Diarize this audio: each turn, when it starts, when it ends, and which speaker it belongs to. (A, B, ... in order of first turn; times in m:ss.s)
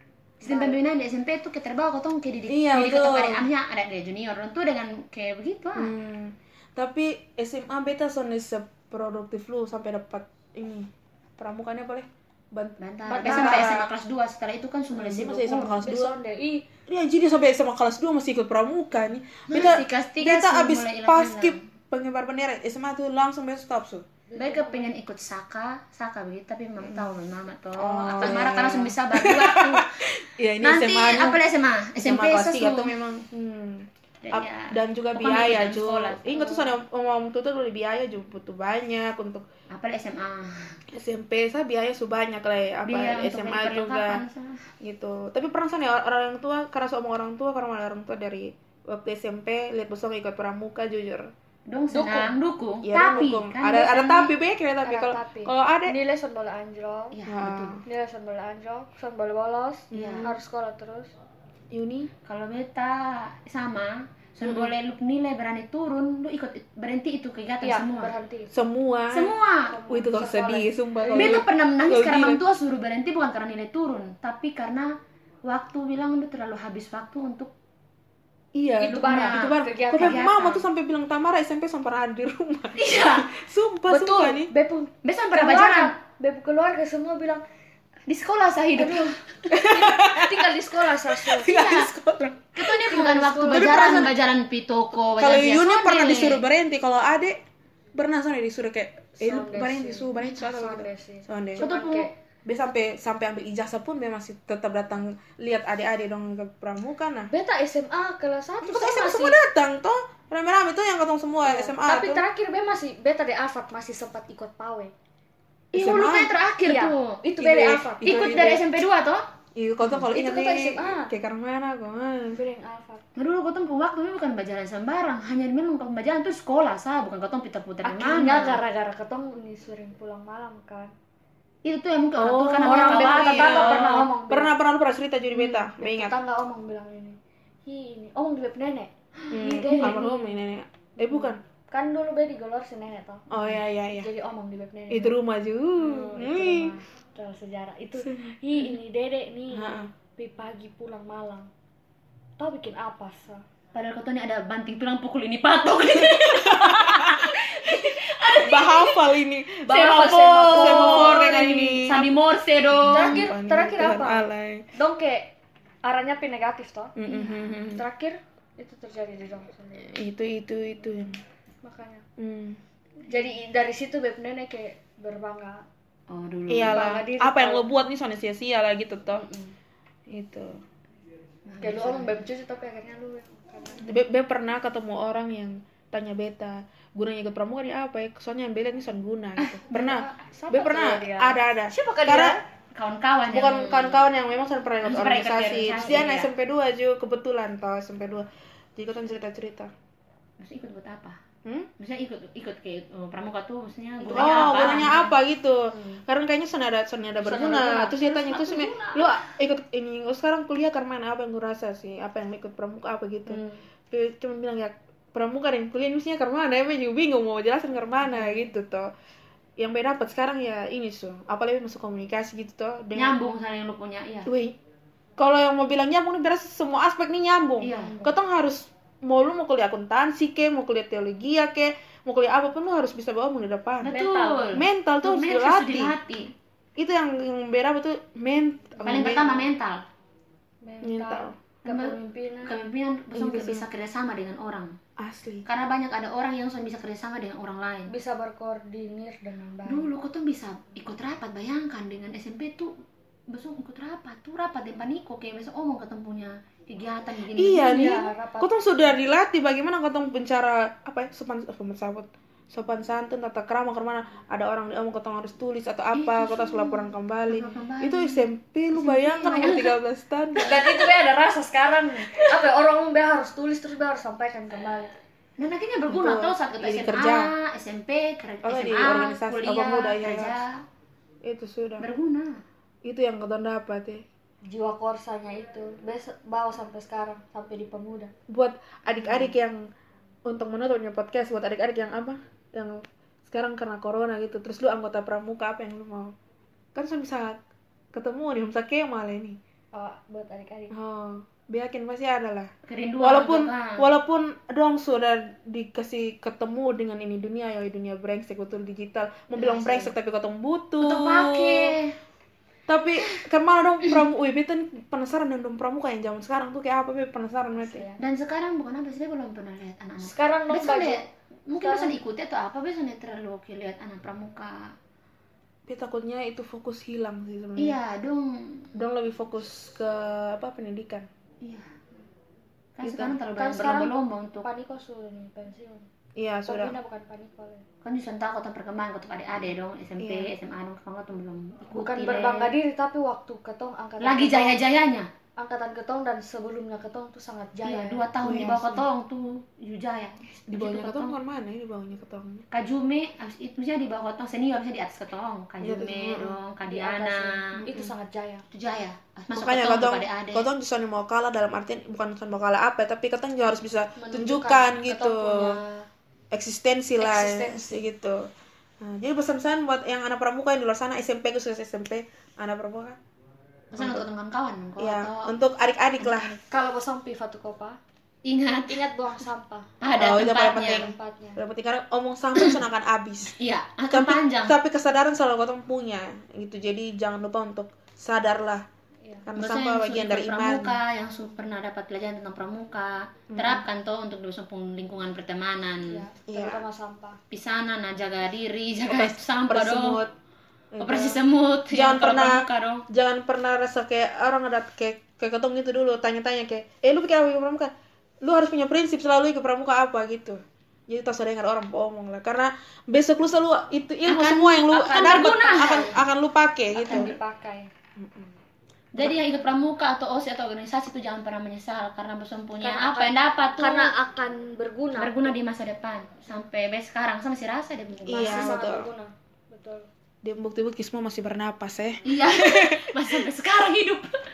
0:00.4-0:05.9 A
0:00.4-0:00.8 B
0:02.5-0:03.5 C
0:05.8-0:13.9 C
0:12.8-0:15.8 A
0:13.0-0:13.8 B
0:14.9-0:16.2 C
0:15.4-0:16.6 B
0:16.9-0:24.0 C
0:19.5-0:21.6 A
0:24.3-0:24.9 B
0:24.4-0:29.9 A
0:26.8-0:27.1 C
0:27.8-0:31.4 C
0:30.6-0:32.9 A
0:32.0-0:39.4 C
0:34.2-0:36.7 A
0:39.7-0:40.8 A
0:40.9-0:44.2 C
0:42.9-0:44.7 A
0:44.8-0:51.3 C
0:51.7-0:54.3 A
0:51.9-0:52.3 B
0:52.8-0:56.0 C
0:54.8-0:57.1 B
0:57.1-0:57.8 A
0:57.3-0:57.8 C
0:57.8-1:01.1 B
0:59.9-1:00.4 C
0:59.9-1:00.3 A
1:01.7-1:02.1 C
1:02.2-1:08.1 A
1:04.4-1:04.7 C
1:07.6-1:08.5 B
1:08.5-1:09.3 C
1:09.1-1:09.8 A
1:09.7-1:11.4 B
1:09.9-1:12.4 C
1:11.1-1:17.5 A
1:18.5-1:24.5 C
1:18.8-1:20.3 B
1:19.0-1:20.6 A
1:22.7-1:23.3 A
1:23.9-1:27.4 B
1:25.0-1:25.9 A
1:28.1-1:29.2 A
1:28.8-1:31.6 B
1:29.5-1:32.7 C
1:31.4-1:31.9 A
1:32.6-1:36.4 A
1:32.8-1:34.1 B
1:33.5-1:34.1 C
1:35.2-1:37.4 C
1:37.9-1:41.6 C
1:39.2-1:42.1 B
1:41.6-1:42.1 A
1:42.4-1:47.3 C
1:47.3-1:49.4 B
1:48.6-1:52.2 C
1:51.4-1:54.9 B
1:55.7-1:56.3 C
1:55.7-1:57.2 A
1:56.6-1:58.6 B
1:57.4-1:58.6 C
1:58.0-1:59.2 A
1:59.5-2:02.4 C
2:00.0-2:01.1 B
2:02.3-2:03.0 B
2:03.2-2:08.6 A
2:07.8-2:10.9 B
2:11.6-2:14.1 A
2:12.2-2:16.1 C
2:12.6-2:14.5 B
2:15.3-2:20.3 B
2:19.3-2:21.4 C
2:19.6-2:20.0 A
2:21.0-2:23.3 B
2:23.3-2:24.1 C
2:23.9-2:25.2 B
2:24.9-2:26.8 C
2:25.8-2:31.5 B
2:28.0-2:28.3 C
2:29.5-2:29.9 C
2:32.4-2:33.4 B
2:33.7-2:39.0 A
2:35.9-2:37.5 C
2:38.3-2:42.0 C
2:39.6-2:42.1 B
2:39.7-2:43.2 A
2:42.7-2:44.6 C
2:42.8-2:47.0 B
2:47.0-2:47.8 C
2:47.1-2:47.5 A
2:47.7-2:50.0 B
2:49.8-2:51.2 C
2:51.6-2:52.0 B
2:52.2-2:52.6 C
2:53.1-2:55.6 B
2:56.1-2:56.9 A
2:56.5-2:59.3 C
2:56.6-2:57.6 B
3:00.1-3:00.6 C
3:01.5-3:02.2 A
3:01.6-3:03.9 B
3:03.8-3:12.4 C
3:09.7-3:12.4 B
3:12.7-3:14.0 A
3:13.3-3:19.7 C
3:14.8-3:16.3 A
3:15.8-3:16.0 B
3:20.4-3:21.2 A
3:21.8-3:25.2 A
3:24.0-3:25.0 B
3:24.1-3:38.9 C
3:25.7-3:26.0 B
3:27.2-3:29.2 B
3:33.3-3:33.6 B
3:39.6-3:43.2 C
3:42.9-3:44.3 A
3:44.2-3:44.6 C
3:45.2-3:53.9 C
3:47.6-3:48.0 A
3:47.7-3:48.1 B
3:53.8-3:56.3 A
3:53.8-3:54.5 B
3:54.5-3:56.0 C
3:56.8-3:59.3 C
3:58.8-3:59.8 A
3:58.9-3:59.4 B
4:00.6-4:02.6 B
4:00.8-4:01.4 C
4:01.6-4:04.8 A
4:03.1-4:03.7 C
4:05.0-4:05.4 C
4:05.4-4:07.9 A
4:07.9-4:09.9 B
4:09.6-4:12.8 A
4:13.3-4:18.1 A
4:17.4-4:30.7 C
4:17.6-4:18.6 B
4:25.9-4:28.2 A
4:28.8-4:29.6 A
4:29.0-4:29.7 B
4:30.4-4:34.9 B
4:35.4-4:40.6 A
4:35.9-4:37.3 C
4:38.4-4:40.4 C
4:41.2-4:41.9 C
4:41.8-4:42.4 A
4:42.8-4:44.0 C
4:44.5-4:48.1 B
4:48.3-4:49.7 C
4:50.2-4:56.2 C
4:56.7-4:57.4 C
4:57.9-4:59.4 C
4:59.7-5:00.7 B
5:00.7-5:11.7 C
5:02.7-5:03.9 A
5:09.4-5:09.9 A
5:10.8-5:11.9 A
5:12.7-5:17.8 C
5:17.5-5:18.0 B
5:18.0-5:24.7 A
5:20.0-5:21.0 B
5:21.6-5:22.0 B
5:25.7-5:27.8 C
5:27.6-5:28.7 A
5:28.7-5:31.1 C
5:32.8-5:34.4 A
5:32.8-5:33.1 C
5:33.3-5:35.9 B
5:36.2-5:36.8 C
5:36.5-5:37.6 B
5:37.8-5:42.5 A
5:40.0-5:40.3 C
5:41.7-5:44.6 B
5:44.0-5:45.1 A
5:45.4-5:48.8 B
5:47.6-5:51.2 A
5:48.2-5:48.7 C
5:50.5-5:52.4 C
5:52.5-5:57.7 A
5:55.6-5:56.4 C
5:56.6-5:58.4 B
5:58.5-6:00.5 A
5:59.3-6:05.6 C
6:04.0-6:05.8 B
6:06.3-6:08.3 C
6:07.0-6:07.8 B
6:08.8-6:13.0 C
6:13.7-6:15.3 A
6:13.7-6:14.0 C
6:14.8-6:16.3 C
6:16.0-6:16.4 A
6:16.5-6:17.8 B
6:18.2-6:18.9 A
6:18.7-6:19.7 B
6:19.8-6:20.9 A
6:20.0-6:23.4 C
6:20.5-6:21.4 B
6:23.4-6:24.6 A
6:23.9-6:28.6 C
6:29.2-6:30.8 C
6:29.4-6:36.0 A
6:33.3-6:33.6 C
6:35.9-6:37.2 B
6:36.3-6:36.6 C
6:37.3-6:40.0 A
6:38.8-6:40.1 C
6:40.7-6:41.2 C
6:40.8-6:42.8 A
6:41.7-6:47.7 C
6:48.2-6:57.2 C
6:54.0-6:55.8 A
6:54.7-6:56.0 B
6:56.7-6:57.7 B
6:58.0-6:58.3 C
6:58.9-7:03.9 A
6:59.0-6:59.2 C
7:02.6-7:05.4 B
7:05.0-7:08.5 A
7:08.0-7:09.9 B
7:08.1-7:08.9 C
7:10.2-7:13.2 C
7:12.0-7:14.1 A